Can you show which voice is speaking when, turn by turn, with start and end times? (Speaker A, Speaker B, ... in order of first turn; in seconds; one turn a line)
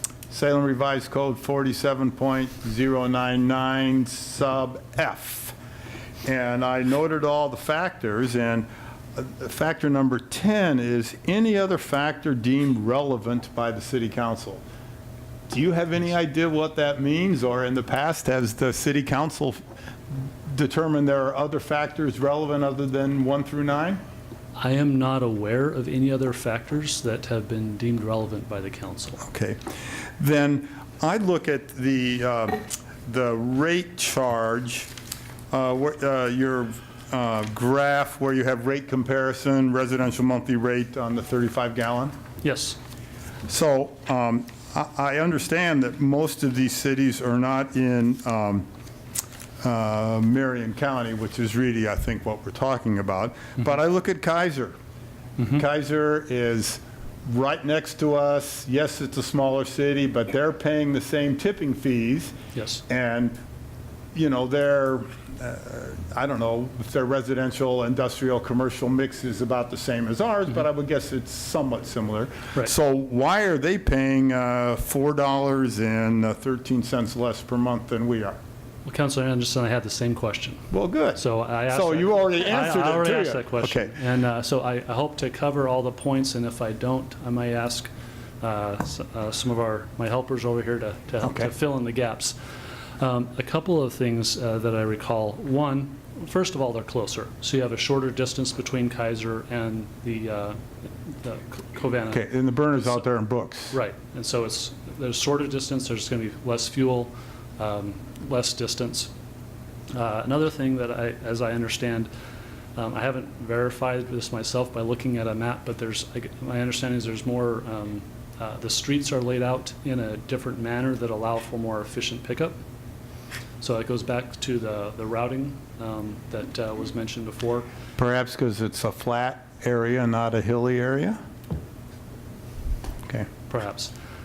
Speaker A: 0.3-5.6
Speaker A: 6.2-14.6
Speaker A: 15.5-19.6
Speaker A: 20.5-24.0
Speaker B: 24.6-29.2
Speaker A: 29.2-29.6
Speaker A: 30.2-34.9
Speaker A: 35.5-42.1
Speaker B: 42.4-42.8
Speaker A: 43.5-48.7
Speaker A: 49.6-54.8
Speaker B: 55.4-55.6
Speaker A: 55.5-62.4
Speaker B: 62.5-62.8
Speaker A: 62.9-63.4
Speaker A: 64.2-78.4
Speaker B: 78.8-87.9
Speaker A: 80.7-83.9
Speaker B: 88.4-92.3
Speaker A: 91.2-91.5
Speaker B: 93.0-102.3
Speaker A: 102.1-103.8
Speaker B: 103.7-109.1
Speaker B: 109.9-112.1
Speaker B: 112.8-122.6
Speaker B: 123.6-127.7
Speaker A: 128.0-131.2
Speaker B: 133.5-133.9